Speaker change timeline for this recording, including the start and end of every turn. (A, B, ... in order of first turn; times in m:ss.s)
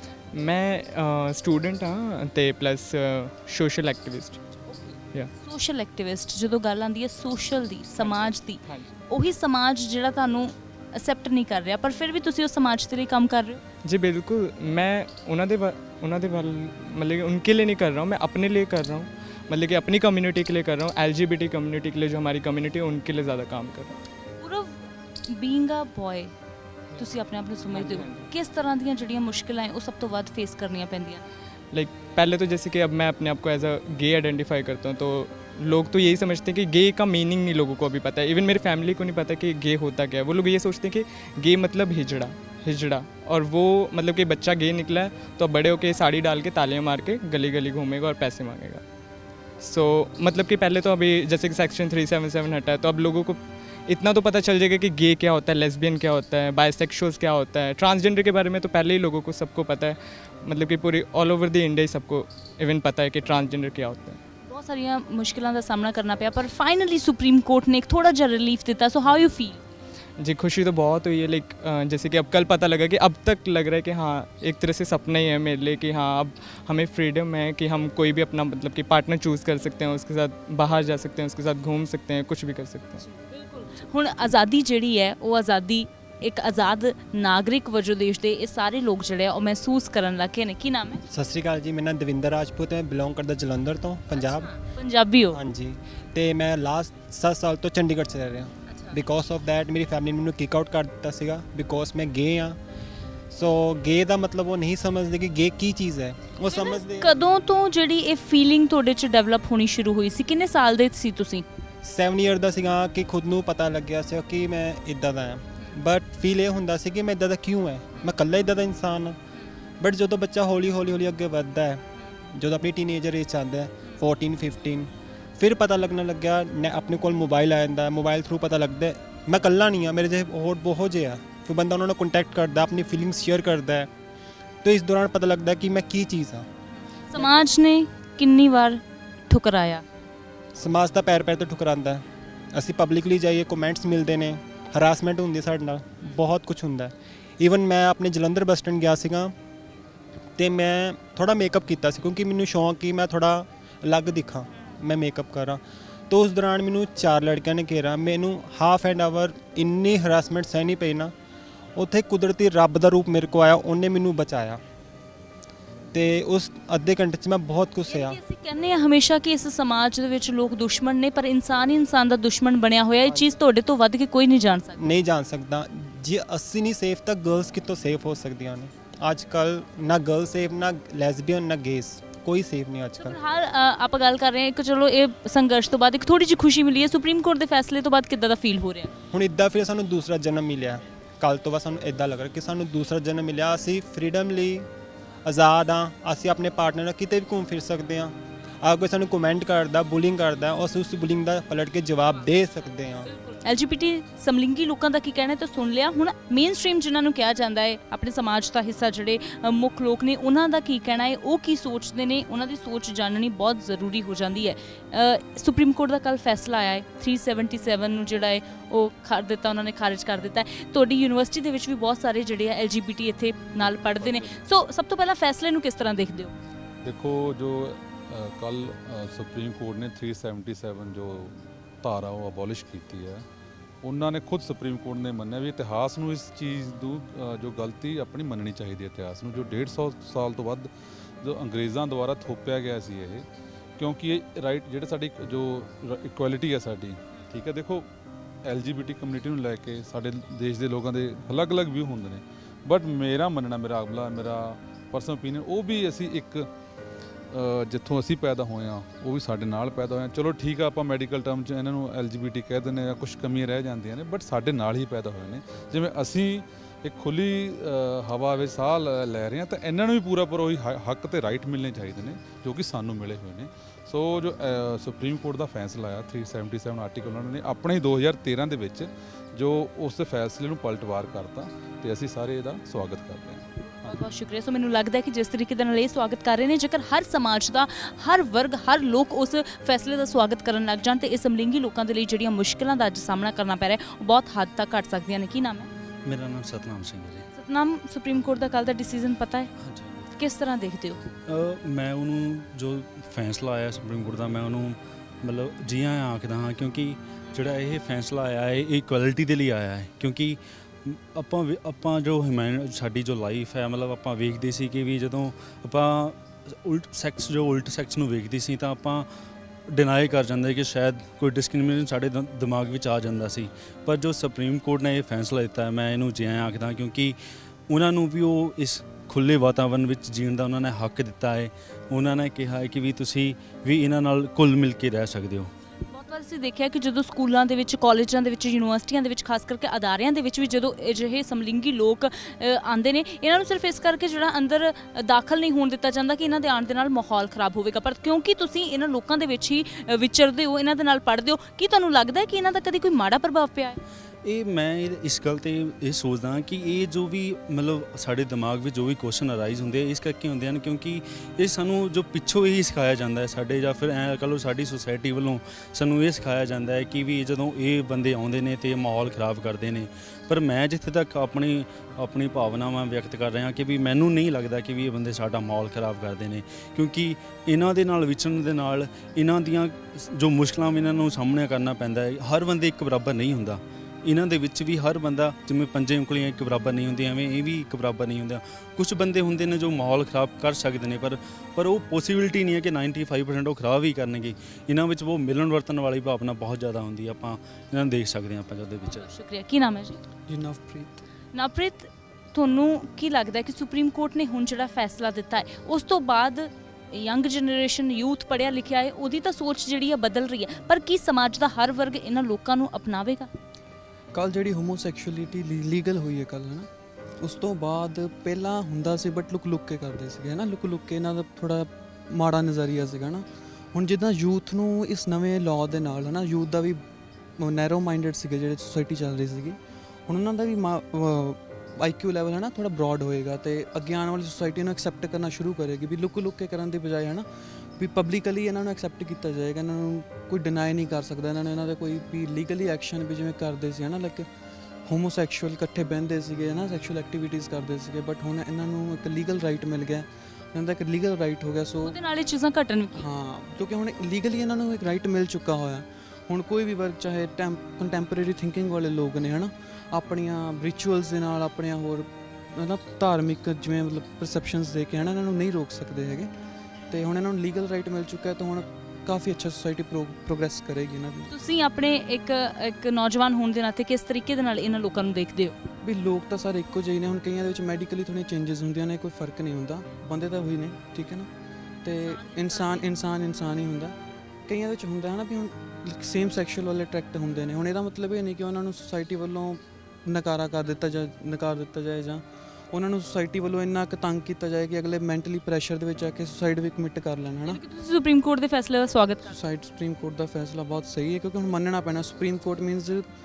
0:00.3-0:05.3 A
0:04.7-0:13.6 B
0:08.0-0:08.9 A
0:13.8-0:24.0 A
0:24.4-0:26.3 B
0:27.0-0:31.2 B
0:27.6-0:28.3 A
0:31.7-0:48.8 A
0:49.6-1:04.2 A
1:04.4-1:09.6 B
1:10.2-1:23.0 A
1:23.0-1:31.0 B
1:31.1-1:34.5 C
1:34.1-1:35.4 B
1:35.3-1:42.6 C
1:38.7-1:39.0 B
1:43.3-1:47.1 C
1:46.4-1:51.4 B
1:51.8-1:59.2 C
1:59.8-2:13.9 C
2:14.6-2:16.5 C
2:17.1-2:19.8 B
2:20.5-2:29.3 C
2:30.4-2:41.1 C
2:41.8-2:44.6 C
2:45.9-2:48.2 C
2:47.9-2:54.8 B
2:53.0-2:53.4 C
2:54.8-3:03.2 C
3:03.0-3:08.9 B
3:09.1-3:14.7 C
3:15.2-3:23.1 C
3:23.1-3:46.3 B
3:43.6-3:44.4 D
3:46.8-3:53.3 D
3:53.8-4:00.7 D
4:01.2-4:03.3 D
4:03.8-4:07.9 D
4:08.4-4:16.5 D
4:17.3-4:44.0 D
4:43.8-4:55.7 B
4:56.0-4:57.3 E
4:57.3-4:59.5 B
4:59.6-5:00.1 E
5:00.2-5:01.0 B
5:01.3-5:19.1 E
5:19.7-5:35.5 E
5:35.9-5:53.8 B
5:54.2-6:39.1 E
6:38.9-6:40.0 B
6:40.3-6:41.0 F
6:41.3-6:53.3 B
6:54.1-7:06.8 F
7:07.4-7:24.3 F
7:24.8-7:32.0 F
7:31.8-7:33.1 B
7:32.9-7:46.3 F
7:46.9-7:51.3 F
7:51.3-7:55.6 B
7:55.8-8:01.3 F
8:01.8-8:17.6 F
8:02.0-8:02.9 B
8:17.4-8:19.4 B
8:19.2-8:23.1 F